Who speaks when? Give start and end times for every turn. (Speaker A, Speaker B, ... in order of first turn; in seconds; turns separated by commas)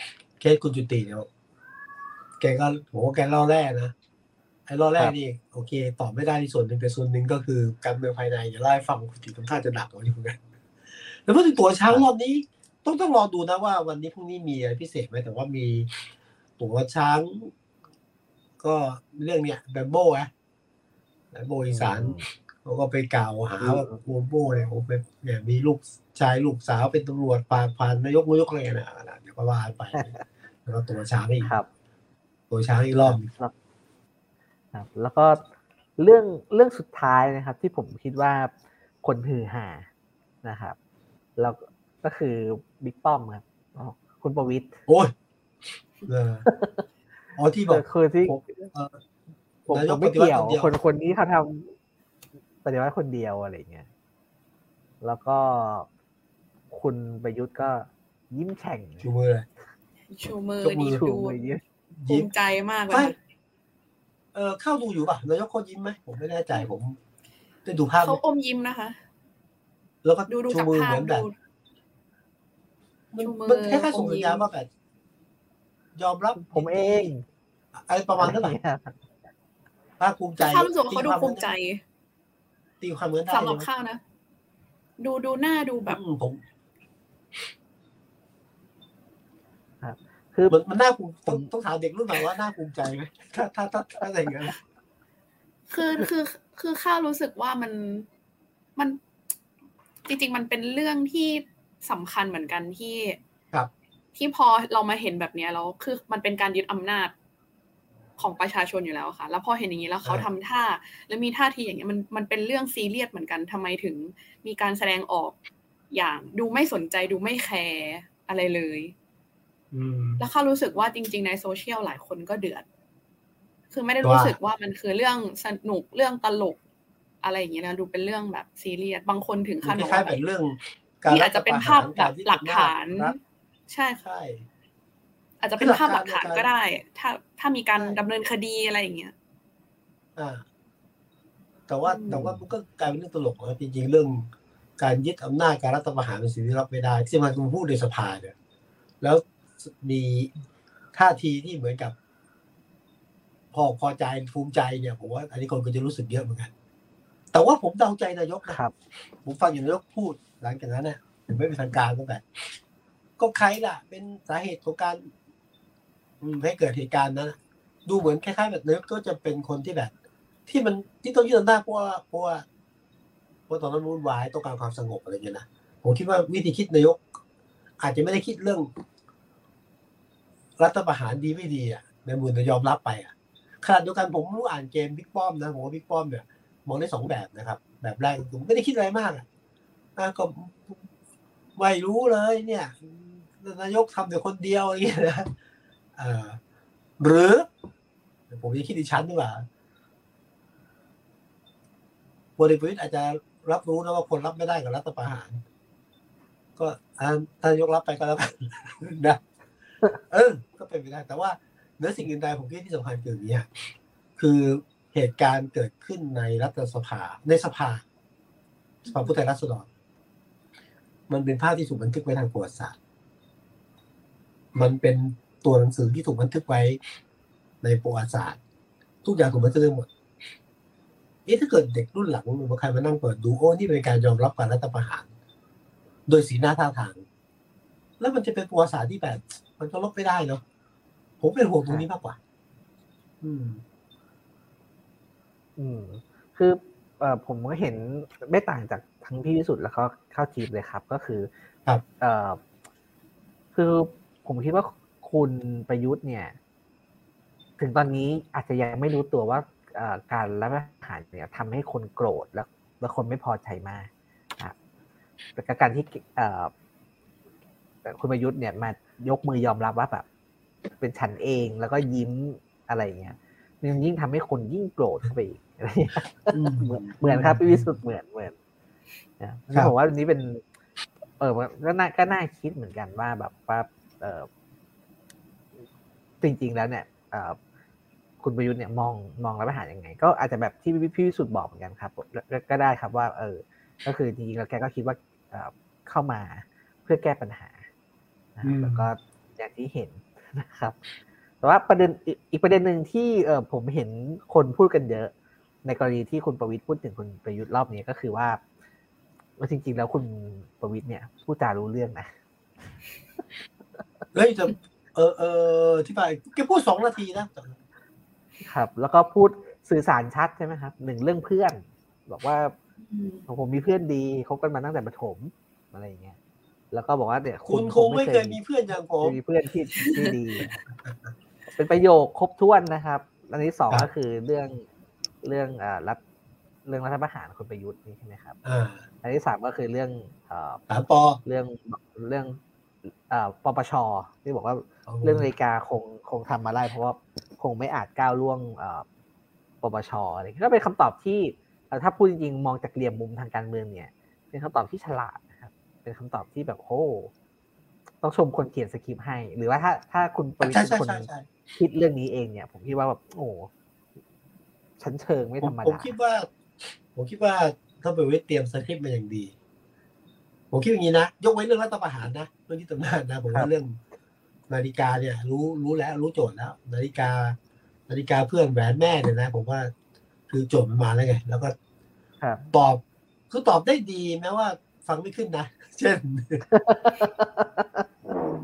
Speaker A: 0.4-1.3, Speaker A: 2.4-3.9, Speaker A: 4.7-10.4, Speaker A: 11.0-16.0, Speaker A: 16.6-17.5, Speaker A: 18.6-20.3, Speaker A: 21.3-31.5, Speaker B: 21.7-22.2, Speaker B: 23.6-24.0, Speaker B: 29.9-30.2, Speaker B: 31.4-31.7, Speaker A: 32.5-33.3, Speaker B: 33.0-33.5, Speaker B: 34.7-35.4, Speaker B: 36.0-39.9, Speaker B: 40.4-40.8, Speaker B: 41.4-44.8, Speaker A: 44.9-45.1, Speaker A: 46.0-46.5, Speaker B: 46.5-46.8, Speaker A: 47.4-49.0, Speaker B: 47.7-48.7, Speaker A: 49.6-50.7, Speaker B: 49.7-51.7, Speaker B: 52.6-53.9, Speaker B: 55.0-55.9, Speaker B: 56.7-59.1, Speaker A: 59.0-59.5, Speaker C: 60.1-61.4, Speaker A: 60.6-61.0, Speaker B: 60.9-61.6, Speaker A: 62.0-62.3, Speaker C: 62.1-63.2, Speaker A: 62.9-63.1, Speaker A: 64.3-67.0, Speaker A: 67.6-68.2, Speaker C: 68.0-69.0, Speaker A: 70.0-71.2, Speaker C: 70.3-71.3, Speaker A: 73.1-74.7, Speaker C: 73.2-74.5, Speaker A: 76.0-77.1, Speaker B: 76.4-77.2, Speaker A: 77.8-78.5, Speaker B: 78.2-79.0, Speaker A: 80.0-81.5, Speaker C: 80.4-81.8, Speaker A: 82.8-83.7, Speaker C: 83.3-84.0, Speaker C: 85.0-86.0, Speaker A: 85.8-86.4, Speaker B: 89.8-90.6, Speaker A: 90.5-94.5, Speaker C: 95.7-98.1, Speaker C: 100.0-103.2, Speaker C: 104.1-107.1, Speaker C: 108.2-115.3, Speaker C: 115.9-118.9, Speaker A: 119.7-120.2, Speaker C: 120.2-122.7, Speaker C: 123.7-126.6, Speaker A: 124.0-124.3, Speaker C: 127.2-130.2, Speaker A: 129.6-133.1, Speaker C: 131.1-134.0, Speaker A: 134.0-134.4, Speaker C: 135.4-139.1, Speaker A: 135.6-136.5, Speaker A: 140.2-140.4, Speaker A: 141.7-148.3, Speaker C: 141.8-142.3, Speaker A: 149.0-150.3, Speaker A: 150.9-151.9, Speaker A: 153.5-156.5, Speaker A: 157.3-158.6, Speaker B: 158.5-158.7, Speaker A: 159.2-162.6, Speaker A: 163.2-165.1, Speaker A: 166.2-169.9, Speaker A: 170.5-172.4, Speaker A: 173.5-177.1, Speaker A: 177.8-178.7, Speaker A: 180.6-189.2, Speaker A: 189.9-190.8, Speaker A: 191.6-195.3, Speaker A: 195.9-196.4, Speaker A: 197.0-197.5, Speaker A: 198.3-199.4, Speaker A: 202.4-205.4, Speaker A: 206.6-209.2, Speaker A: 210.0-213.5, Speaker A: 214.2-217.8, Speaker A: 218.9-219.7, Speaker A: 221.1-222.8, Speaker A: 224.5-226.8, Speaker A: 227.6-228.4, Speaker A: 229.0-229.9, Speaker A: 231.2-235.1, Speaker A: 236.1-237.0, Speaker A: 238.0-240.4, Speaker A: 241.2-242.2, Speaker A: 243.2-243.6, Speaker B: 245.6-251.3, Speaker B: 252.0-252.4, Speaker B: 253.5-256.4, Speaker B: 257.6-264.5, Speaker B: 265.4-266.5, Speaker B: 267.8-270.1, Speaker B: 270.8-278.3, Speaker A: 276.3-277.7, Speaker B: 279.2-280.4, Speaker B: 281.2-284.3, Speaker B: 286.2-287.4, Speaker B: 288.2-297.7, Speaker B: 298.4-300.8, Speaker A: 298.4-298.9, Speaker B: 301.4-305.1, Speaker B: 305.6-308.4, Speaker B: 309.4-312.1, Speaker A: 314.1-317.6, Speaker B: 318.4-322.5, Speaker C: 322.8-323.2, Speaker B: 323.3-326.2, Speaker B: 326.7-328.4, Speaker A: 327.5-329.2, Speaker B: 329.0-330.6, Speaker B: 331.6-334.6, Speaker B: 335.2-336.0, Speaker B: 336.6-338.4, Speaker A: 338.4-338.8, Speaker B: 339.0-340.6, Speaker A: 340.7-341.2, Speaker B: 341.2-342.4, Speaker B: 343.1-348.9, Speaker A: 344.9-345.3, Speaker B: 349.6-357.1, Speaker B: 358.0-363.5, Speaker A: 360.4-361.3, Speaker B: 364.8-365.9, Speaker A: 365.4-369.3, Speaker A: 370.5-373.8, Speaker A: 374.5-377.4, Speaker A: 377.9-379.7, Speaker A: 380.3-381.5, Speaker B: 382.2-382.5, Speaker A: 382.5-386.5, Speaker B: 386.5-387.8